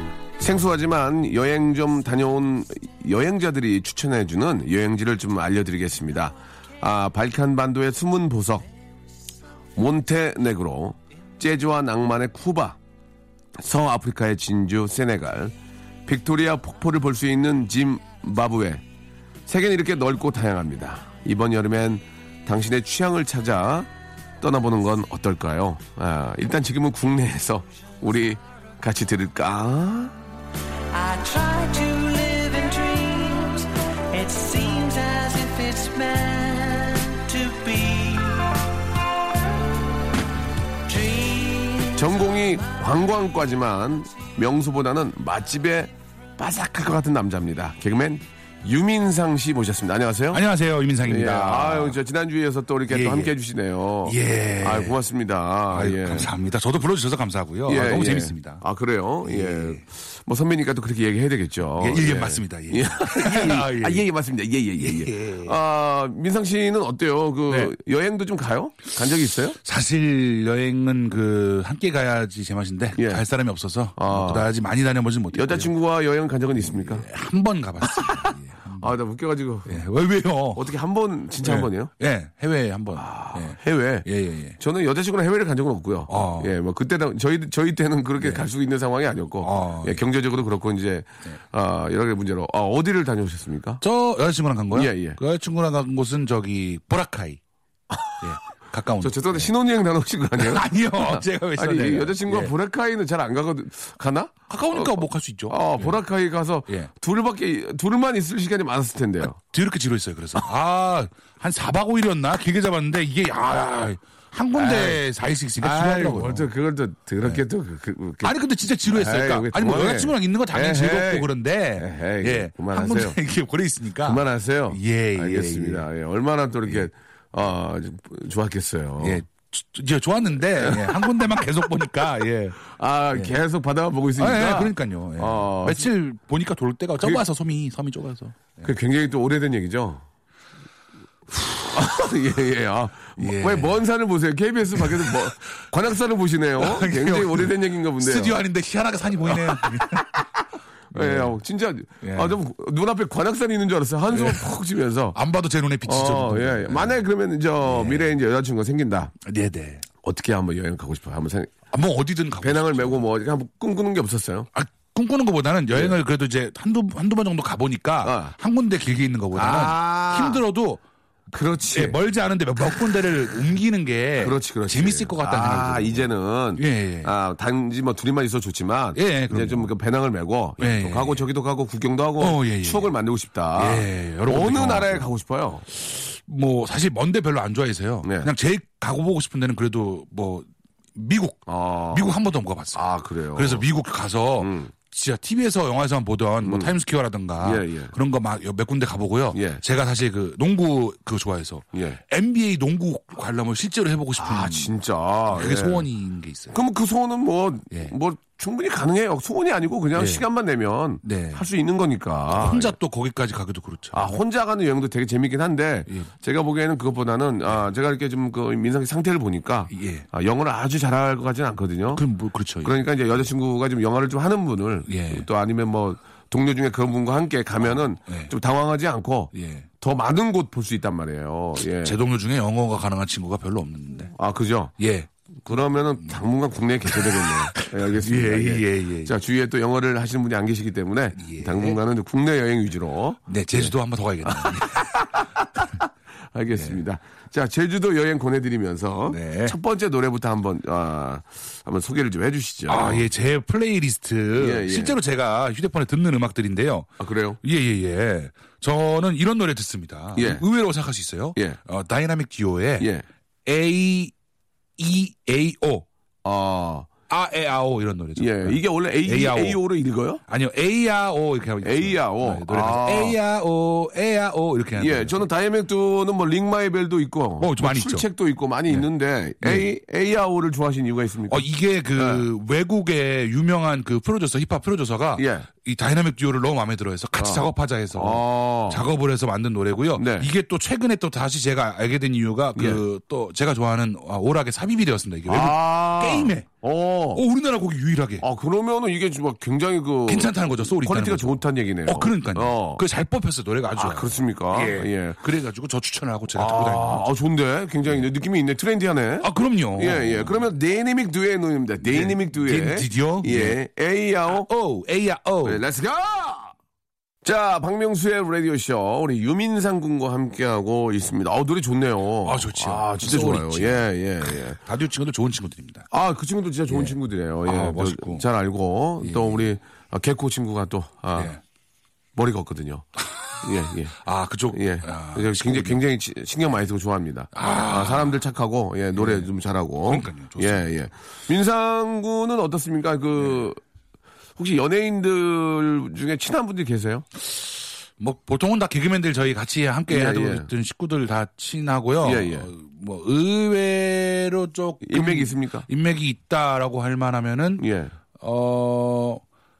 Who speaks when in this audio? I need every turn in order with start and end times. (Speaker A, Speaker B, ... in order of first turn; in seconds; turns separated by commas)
Speaker A: 0.4-8.7, Speaker A: 9.8-12.8, Speaker A: 13.6-18.8, Speaker A: 19.4-23.9, Speaker A: 24.4-30.2, Speaker B: 30.9-38.7, Speaker B: 40.9-42.6, Speaker A: 41.9-50.4, Speaker C: 50.3-52.0, Speaker A: 51.0-56.3, Speaker C: 52.9-53.4, Speaker C: 54.0-55.0, Speaker C: 55.7-58.6, Speaker A: 57.7-69.6, Speaker C: 59.2-59.8, Speaker C: 61.8-64.0, Speaker C: 64.8-65.5, Speaker C: 67.5-67.7, Speaker C: 69.6-75.7, Speaker A: 73.0-73.2, Speaker A: 73.9-74.5, Speaker A: 75.3-77.0, Speaker C: 76.6-78.9, Speaker A: 78.0-79.8, Speaker C: 79.7-80.7, Speaker A: 80.5-81.9, Speaker C: 81.4-84.6, Speaker A: 83.0-84.1, Speaker A: 84.6-93.8, Speaker C: 86.1-86.5, Speaker C: 88.2-88.5, Speaker C: 89.4-90.0, Speaker C: 93.8-97.4, Speaker A: 94.7-95.2, Speaker A: 97.9-98.2, Speaker C: 98.2-99.5, Speaker A: 99.0-109.4, Speaker C: 100.3-102.5, Speaker C: 104.5-106.0, Speaker C: 109.3-116.5, Speaker A: 114.5-115.0, Speaker A: 115.6-118.3, Speaker C: 118.2-125.9, Speaker A: 118.9-123.2, Speaker A: 124.0-129.2, Speaker C: 129.0-132.6, Speaker A: 130.6-131.0, Speaker A: 132.6-135.9, Speaker C: 133.1-133.4, Speaker C: 134.2-138.7, Speaker A: 138.6-140.0, Speaker A: 141.3-148.4, Speaker C: 143.2-143.8, Speaker C: 144.7-145.3, Speaker C: 146.6-150.2, Speaker A: 149.3-150.2, Speaker A: 150.9-155.2, Speaker C: 150.9-151.4, Speaker C: 152.0-152.4, Speaker C: 154.1-154.5, Speaker C: 155.1-157.0, Speaker A: 155.8-159.1, Speaker C: 157.6-158.1, Speaker C: 159.2-159.9, Speaker A: 160.0-161.5, Speaker C: 161.7-163.0, Speaker A: 162.4-164.5, Speaker C: 164.5-170.8, Speaker A: 168.0-168.3, Speaker A: 169.3-170.4, Speaker A: 171.3-172.0, Speaker C: 171.7-177.1, Speaker A: 174.2-185.6, Speaker C: 178.9-179.7, Speaker C: 180.6-181.2, Speaker C: 182.2-182.9, Speaker C: 183.6-185.1, Speaker C: 185.7-204.7, Speaker A: 188.0-188.3, Speaker A: 191.5-192.1, Speaker A: 192.7-193.6, Speaker A: 194.4-194.7, Speaker A: 196.4-196.7, Speaker A: 197.4-197.9, Speaker A: 199.3-199.6, Speaker A: 201.7-202.0, Speaker A: 204.2-205.9, Speaker C: 205.3-206.6, Speaker A: 206.5-212.7, Speaker C: 209.9-210.2, Speaker C: 211.0-211.4, Speaker C: 212.3-214.1, Speaker A: 213.9-222.0, Speaker C: 219.7-220.0, Speaker C: 221.9-222.8, Speaker A: 222.6-232.0, Speaker C: 224.9-225.2, Speaker C: 227.6-228.3, Speaker C: 229.3-229.7, Speaker C: 231.8-234.1, Speaker A: 234.1-234.7, Speaker C: 234.8-235.1, Speaker A: 235.4-243.7, Speaker C: 236.8-239.1, Speaker C: 241.2-241.8, Speaker C: 243.3-244.9, Speaker A: 244.2-253.0, Speaker C: 249.1-249.5, Speaker C: 252.7-262.9, Speaker A: 254.3-255.0, Speaker A: 257.0-257.4, Speaker A: 260.1-260.4, Speaker A: 262.8-263.0, Speaker C: 263.4-264.1, Speaker C: 264.8-265.9, Speaker A: 266.2-266.9, Speaker C: 267.1-269.6, Speaker A: 268.2-270.2, Speaker C: 270.3-275.3, Speaker A: 271.6-273.2, Speaker A: 274.8-281.4, Speaker C: 277.4-278.1, Speaker C: 279.4-279.7, Speaker C: 281.3-296.5, Speaker A: 281.9-282.2, Speaker A: 285.2-285.5, Speaker A: 287.2-288.8, Speaker A: 289.9-290.3, Speaker A: 292.5-292.8, Speaker A: 295.3-297.2, Speaker C: 297.1-298.2, Speaker A: 298.2-302.8, Speaker C: 300.1-307.0, Speaker A: 303.7-305.2, Speaker A: 306.3-314.5, Speaker C: 309.2-310.4, Speaker C: 311.8-313.6, Speaker C: 314.3-315.6, Speaker A: 315.4-316.5, Speaker A: 317.2-324.6, Speaker C: 322.2-323.9, Speaker C: 324.5-325.9, Speaker A: 325.9-331.3, Speaker C: 326.7-328.2, Speaker C: 329.0-329.5, Speaker C: 331.1-331.4, Speaker A: 332.1-332.9, Speaker C: 333.2-335.8, Speaker A: 333.4-333.9, Speaker A: 334.5-343.6, Speaker C: 337.3-338.2, Speaker C: 338.9-339.3, Speaker C: 339.9-340.7, Speaker A: 344.4-347.1, Speaker C: 347.2-357.6, Speaker A: 349.9-350.5, Speaker A: 352.0-352.5, Speaker A: 354.8-355.7, Speaker A: 357.6-357.9, Speaker C: 358.2-359.2